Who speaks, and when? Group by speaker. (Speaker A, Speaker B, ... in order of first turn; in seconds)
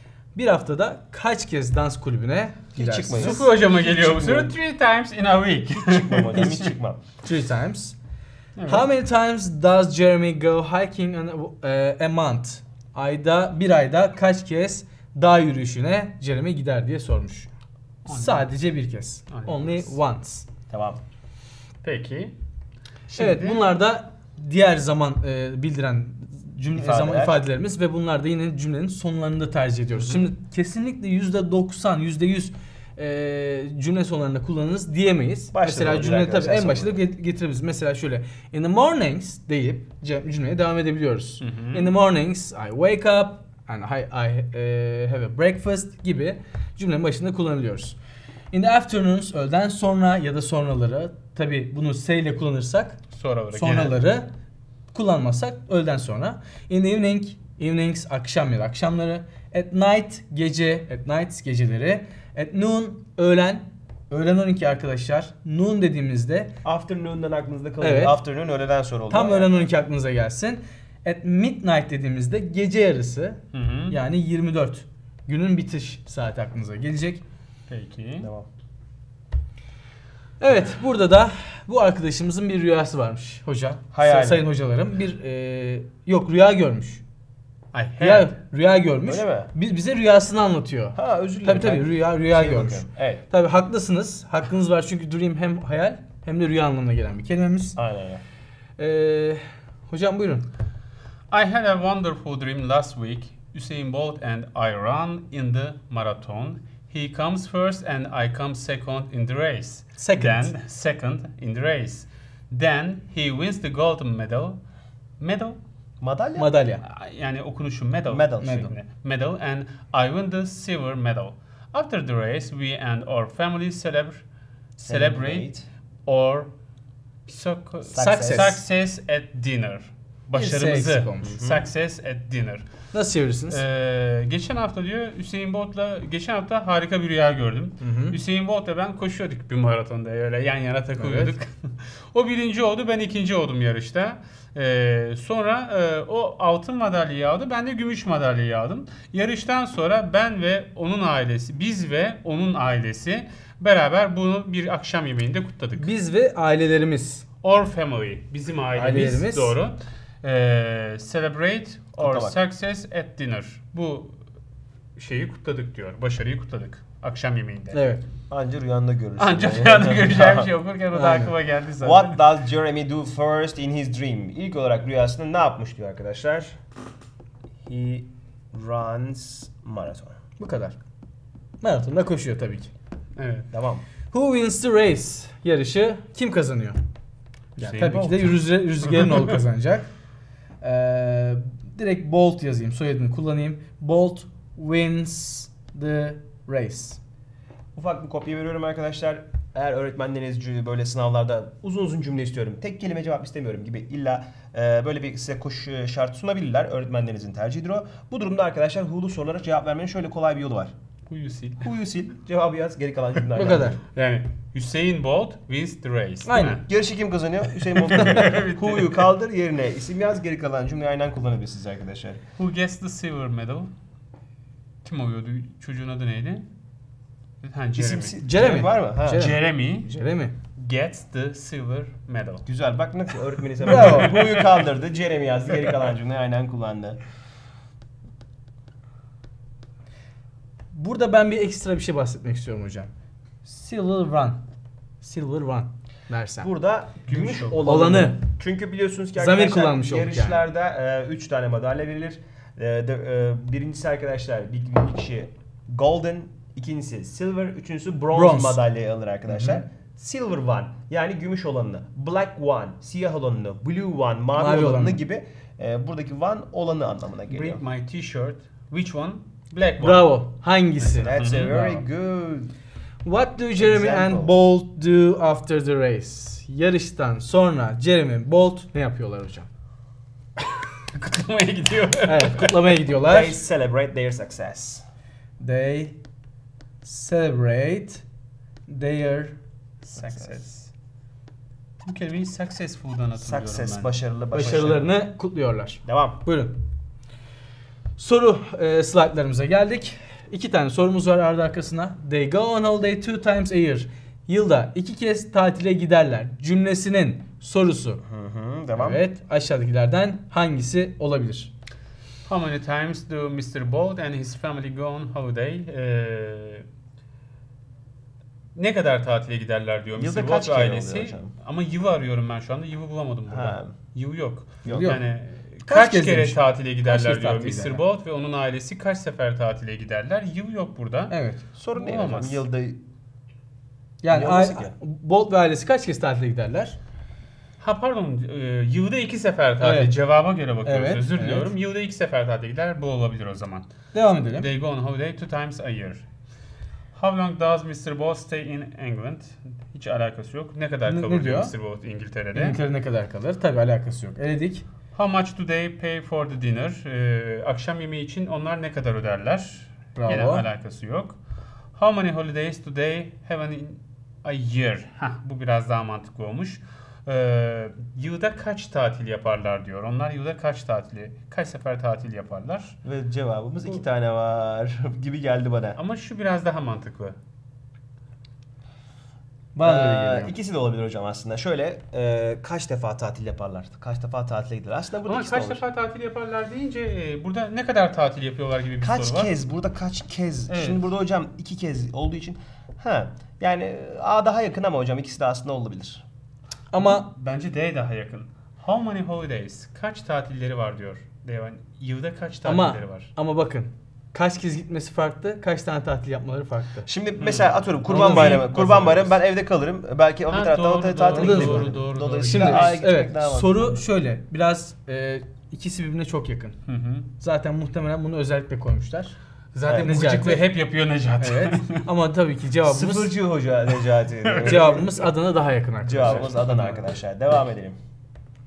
Speaker A: 0.3-3.5, 6.3-6.7, 7.2-8.0, 8.7-17.5, 18.1-20.5, 23.2-48.0, 48.5-53.0, 53.5-54.3, 54.9-66.5, 67.8-68.2, 69.1-77.2, 80.4-87.0, 88.0-97.8, 98.8-100.5, 110.0-110.5, 116.4-116.8, 118.4-118.8, 128.0-128.6, 130.3-131.4, 132.9-133.6, 137.8-138.2, 141.0-141.4, 155.8-157.2, 158.8-159.6, 167.7-168.0, 170.9-171.3, 180.4-180.8, 181.6-182.7, 184.1-186.8, 187.6-189.9, 190.6-197.0, 213.3-213.8, 216.3-216.6, 228.2-230.4, 233.6-234.2, 240.7-242.9, 243.4-244.4, 245.0-246.5, 247.6-248.2, 249.2-250.4, 258.1-258.6, 264.4-265.0, 269.8-271.9, 273.0-279.5, 282.0-283.4, 285.4-286.0, 286.8-288.0, 288.7-289.4, 294.3-296.6, 298.0-308.0, 308.8-311.5, 324.7-325.0, 325.7-327.8, 331.1-331.4, 334.0-336.8, 339.6-340.0, 340.6-341.5, 343.9-344.5, 350.9-351.5, 352.3-354.7, 359.9-360.5, 379.6-380.3, 396.7-397.1, 402.4-406.9, 407.9-408.5, 411.1-416.6, 417.2-419.2, 419.7-420.5, 421.2-423.1, 424.4-426.7
Speaker B: 2.8-4.5, 5.8-7.0, 20.7-21.0, 26.8-27.4, 35.5-37.0, 66.6-69.7, 78.2-78.5, 83.9-84.4, 89.0-89.5, 91.0-93.2, 97.8-98.2, 116.0-116.5, 118.1-118.7, 124.8-125.7, 127.9-128.6, 131.2-131.7, 162.0-162.4, 168.3-170.5, 171.8-176.6, 177.7-180.2, 183.5-183.8, 197.8-210.7, 211.6-213.8, 216.7-222.2, 227.8-229.3, 232.5-237.0, 246.4-267.6, 270.8-272.5, 273.6-274.3, 283.1-284.9, 290.0-290.4, 293.2-294.9, 295.9-296.2, 308.0-309.0, 320.0-321.3, 323.3-323.7, 324.6-324.9, 331.6-332.8, 334.1-334.8, 372.8-375.8, 379.6-385.6, 388.8-396.1, 406.9-413.7, 419.7-420.1, 422.6-424.9, 425.8-427.8
Speaker C: 3.1-6.7, 8.6-8.9, 18.1-18.5, 19.3-19.9, 21.8-22.4, 23.1-23.7, 41.4-42.0, 53.1-54.0, 73.5-74.0, 77.7-78.3, 87.7-88.3, 101.3-114.6, 115.2-115.6, 116.8-124.2, 124.8-125.5, 126.1-126.5, 127.3-132.7, 133.5-155.9, 157.4-164.2, 165.0-167.8, 169.2-172.2, 183.2-183.5, 187.6-188.4, 211.1-211.6, 213.9-216.7, 217.6-219.1, 222.4-223.7, 224.8-226.5, 227.4-228.2, 229.1-229.9, 230.6-232.4, 233.7-234.5, 247.1-247.6, 267.3-270.1, 270.9-271.5, 280.8-282.8, 289.8-290.7, 291.9-294.7, 312.3-316.7, 318.6-331.1, 331.7-332.4, 337.6-343.7, 344.3-346.1, 346.9-352.6, 354.9-361.2, 361.8-372.8, 375.8-377.2, 385.1-389.3, 390.5-390.9, 396.8-403.1, 407.2-409.2, 410.3-412.8, 416.7-417.1, 419.5-421.8, 424.2-424.7, 426.0-426.8